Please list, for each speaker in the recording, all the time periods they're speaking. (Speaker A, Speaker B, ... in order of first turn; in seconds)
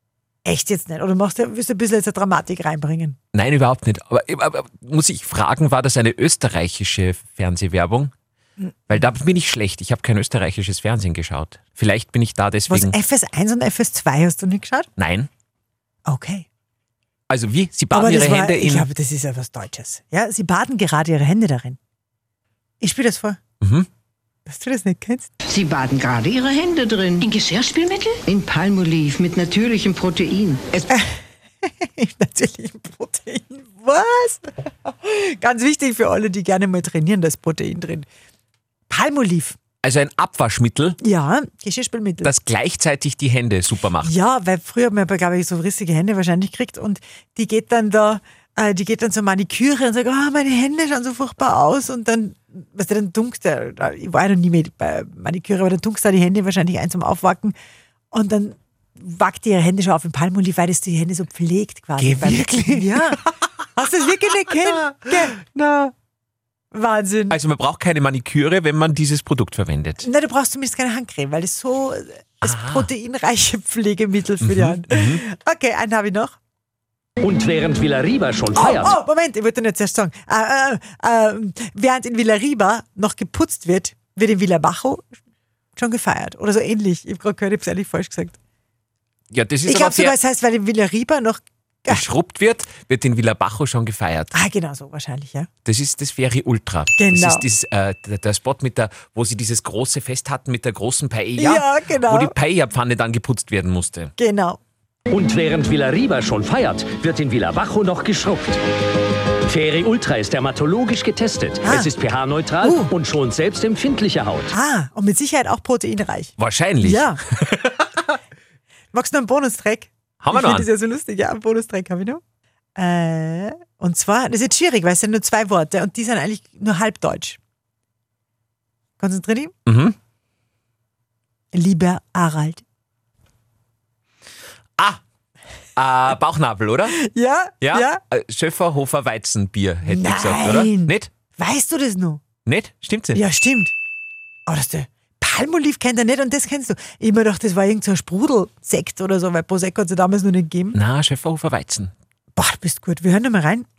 Speaker A: 0.5-3.2, 12.7-14.9, 16.1-16.5, 17.9-21.8, 22.8-23.4, 24.5-25.3, 30.9-38.1, 38.9-39.6, 41.0-42.3, 44.0-57.5, 58.1-63.2, 63.8-65.9, 66.7-67.4, 70.0-76.4, 78.5-85.0, 85.8-88.4, 89.7-92.0, 94.3-95.5, 97.0-97.4, 101.4-102.3, 104.2-104.6, 111.6-111.9, 112.6-112.9, 114.5-117.2, 118.9-122.2, 122.8-127.4, 129.0-129.5, 131.5-132.6, 136.9-138.0, 139.8-142.2, 143.2-143.7, 144.5-150.8, 152.4-153.7
Speaker B: 3.3-8.1, 8.9-12.9, 15.0-15.3, 17.3-18.9, 23.6-23.9, 39.8-41.0, 42.2-44.1, 62.0-63.3, 67.3-70.1, 72.4-72.9, 74.4-75.2, 89.3-90.2, 91.9-94.3, 95.7-104.1, 116.4-118.0, 120.2-120.7, 129.7-130.0, 135.8-137.0, 137.6-141.1, 142.4-143.2, 150.7-151.9
Speaker C: 25.4-30.9
Speaker D: 77.2-79.0, 105.1-108.6, 109.5-114.5